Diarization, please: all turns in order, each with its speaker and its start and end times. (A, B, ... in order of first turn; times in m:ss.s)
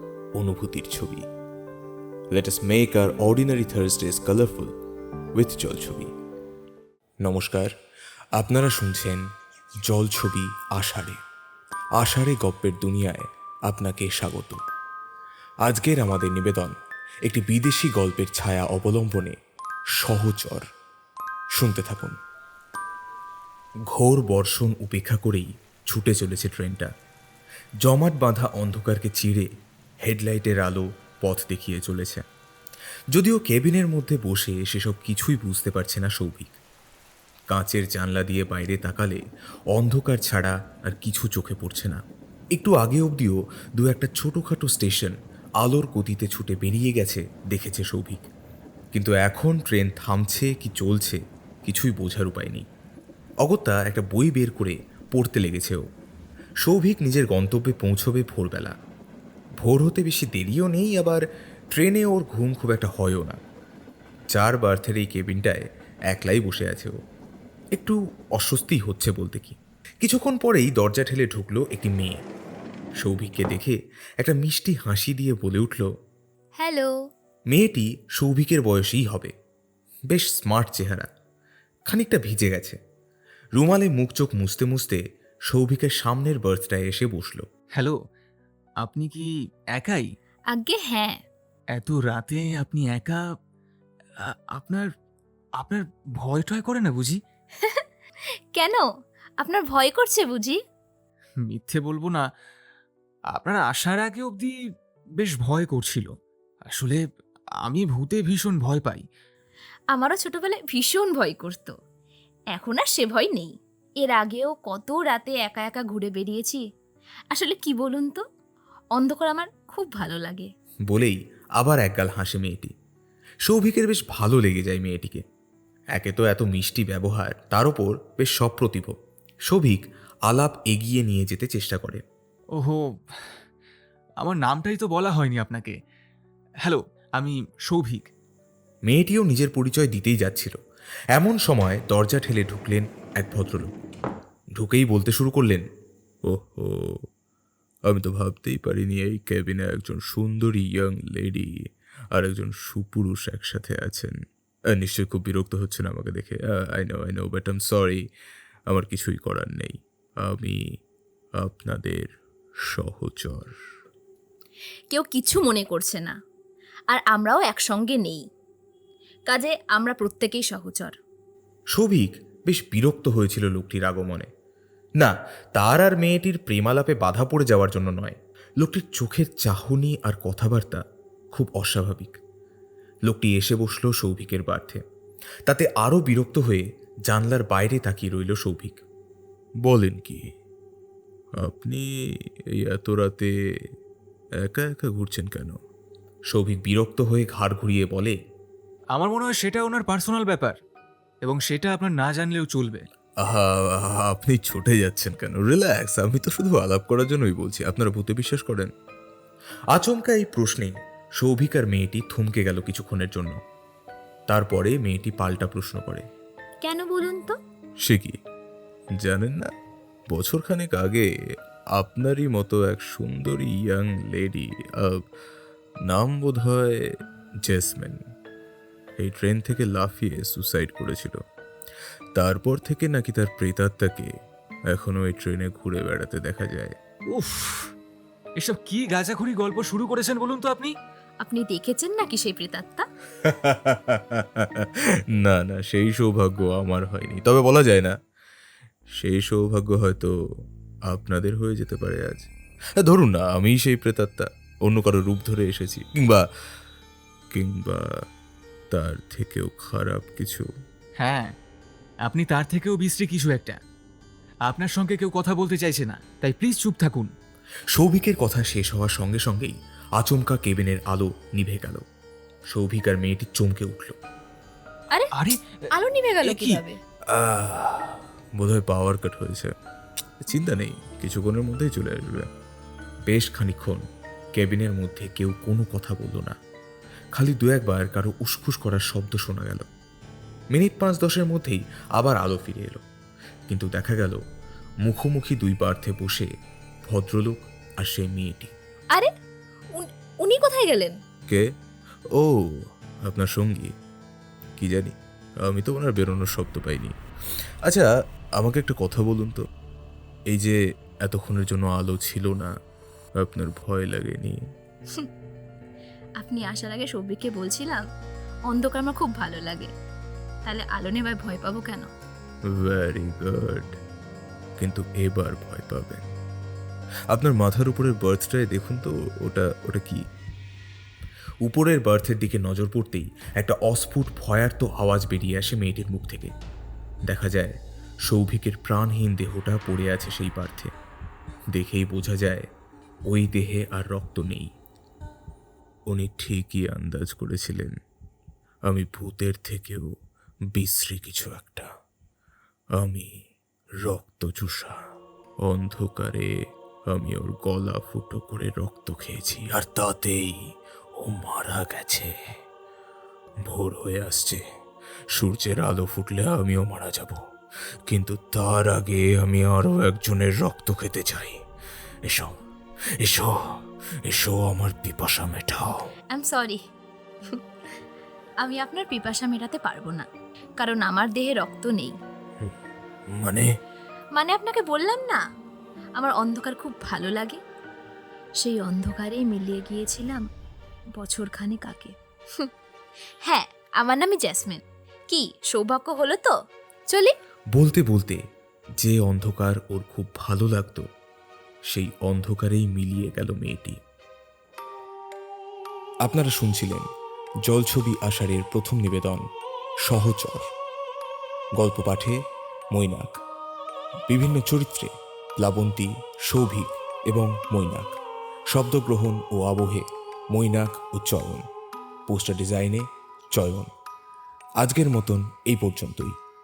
0:00.4-0:01.2 A
0:02.3-0:04.7 A
0:05.3-0:06.1 A
0:07.2-0:07.7 A
0:08.4-0:09.2 A
0:09.8-0:11.2 A
0:12.0-0:14.6 A
0:15.6-0:19.4 A
0:20.0-0:20.6 A
0:21.6-0:22.1 A
0:23.9-0:26.9 A
0:27.8-0:29.5 A
0:30.0-0:32.2 A
0:33.1-0:36.5 A
0:37.5-0:39.2 A
0:39.7-0:42.0 A
0:42.6-0:48.2 A
0:48.9-0:52.6 A
0:53.4-0:55.8 A
0:56.6-0:58.8 A
0:59.6-1:03.4 A
1:04.3-1:06.9 A
1:07.7-1:12.2 A
1:13.0-1:15.9 A
1:16.6-1:17.0 B
1:17.5-1:19.3 A
1:20.1-1:21.1 A
1:21.9-1:22.8 A
1:23.6-1:27.4 A
1:28.8-1:30.0 C
1:30.5-1:31.2 B
1:31.8-1:33.2 C
1:34.3-1:34.8 C
1:35.6-1:37.2 C
1:37.6-1:37.9 B
1:38.5-1:38.8 B
1:39.4-1:40.6 B
1:41.4-1:42.2 C
1:43.3-1:44.6 C
1:45.2-1:46.1 C
1:46.7-1:47.0 C
1:47.6-1:49.0 C
1:49.9-1:51.7 B
1:52.5-1:56.6 B
1:57.3-1:58.2 B
1:59.0-2:00.5 B
2:00.9-2:02.7 A
2:03.4-2:05.2 A
2:05.9-2:08.9 A
2:09.5-2:12.0 A
2:14.2-2:15.7 C
2:16.6-2:18.1 C
2:18.8-2:20.6 A
2:21.1-2:23.7 A
2:24.6-2:25.6 A
2:26.2-2:27.0 A
2:27.9-2:31.5 A
2:32.1-2:34.2 A
2:34.7-2:38.0 A
2:38.7-2:40.6 A
2:41.4-2:42.1 A
2:42.7-2:43.6 A
2:44.9-2:46.2 B
2:46.9-2:48.2 B
2:49.3-2:50.9 B
2:51.7-2:54.3 A
2:55.0-3:02.2 A
3:03.1-3:04.8 A
3:05.5-3:08.8 A
3:09.6-3:10.2 A
3:11.4-3:11.9 A
3:12.5-3:13.3 A
3:14.4-3:15.6 A
3:16.3-3:18.2 A
3:18.9-3:20.6 C
3:21.2-3:22.8 C
3:23.2-3:28.7 A
3:29.7-3:33.4 A
3:34.3-3:36.0 A
3:36.6-3:37.4 B
3:37.8-3:38.2 A
3:39.0-3:39.5 A
3:40.1-3:41.1 A
3:41.8-3:45.0 A
3:45.9-3:46.9 A
3:47.4-3:48.0 A
3:49.0-3:51.2 A
3:52.2-3:54.1 A
3:54.7-3:56.7 A
3:57.1-3:57.7 C
3:58.4-4:00.7 C
4:01.2-4:02.9 B
4:03.2-4:08.0 A
4:08.9-4:10.1 A
4:10.9-4:12.3 A
4:12.8-4:16.2 A
4:17.3-4:17.8 A
4:18.7-4:20.5 A
4:21.0-4:21.3 C
4:22.1-4:23.6 C
4:24.4-4:27.1 C
4:27.7-4:31.8 A
4:32.5-4:34.0 A
4:35.7-4:36.8 B
4:36.2-4:36.6 C
4:37.1-4:39.5 A
4:40.2-4:42.3 A
4:43.1-4:46.4 A
4:47.1-4:49.7 A
4:50.5-4:52.8 A
4:53.5-4:54.2 A
4:54.8-4:56.3 A
4:56.8-4:58.5 A
4:59.7-5:00.9 B
5:02.2-5:03.7 A
5:04.6-5:06.9 A
5:07.6-5:09.4 A
5:10.3-5:12.5 A
5:13.2-5:14.4 A
5:16.2-5:17.8 B
5:18.5-5:19.7 B
5:20.4-5:21.9 B
5:22.5-5:23.8 A
5:24.6-5:26.0 A
5:27.1-5:30.0 A
5:31.4-5:36.3 A
5:37.1-5:37.5 A
5:38.0-5:40.7 A
5:41.5-5:42.5 A
5:43.1-5:44.5 A
5:45.9-5:47.8 A
5:48.6-5:49.9 A
5:50.5-5:51.7 A
5:52.7-5:53.1 A
5:53.8-5:54.8 A
5:55.4-5:56.3 A
5:56.9-6:00.4 A
6:01.0-6:02.1 A
6:03.4-6:04.4 A
6:05.1-6:07.2 A
6:07.8-6:11.4 A
6:12.0-6:12.4 A
6:13.0-6:13.4 A
6:14.0-6:15.9 A
6:16.1-6:16.6 B
6:18.4-6:20.1 B
6:20.6-6:22.0 B
6:23.1-6:23.5 A
6:24.2-6:25.2 B
6:26.0-6:27.4 B
6:28.4-6:30.2 B
6:30.9-6:32.5 B
6:33.2-6:36.3 B
6:37.5-6:38.2 A
6:38.8-6:40.8 A
6:41.7-6:43.8 A
6:46.0-6:46.9 A
6:47.5-6:49.2 A
6:49.8-6:50.5 A
6:51.6-6:52.2 A
6:52.7-6:53.2 A
6:54.1-6:57.9 A
6:58.5-7:01.5 A
7:02.1-7:03.7 A
7:04.6-7:06.1 A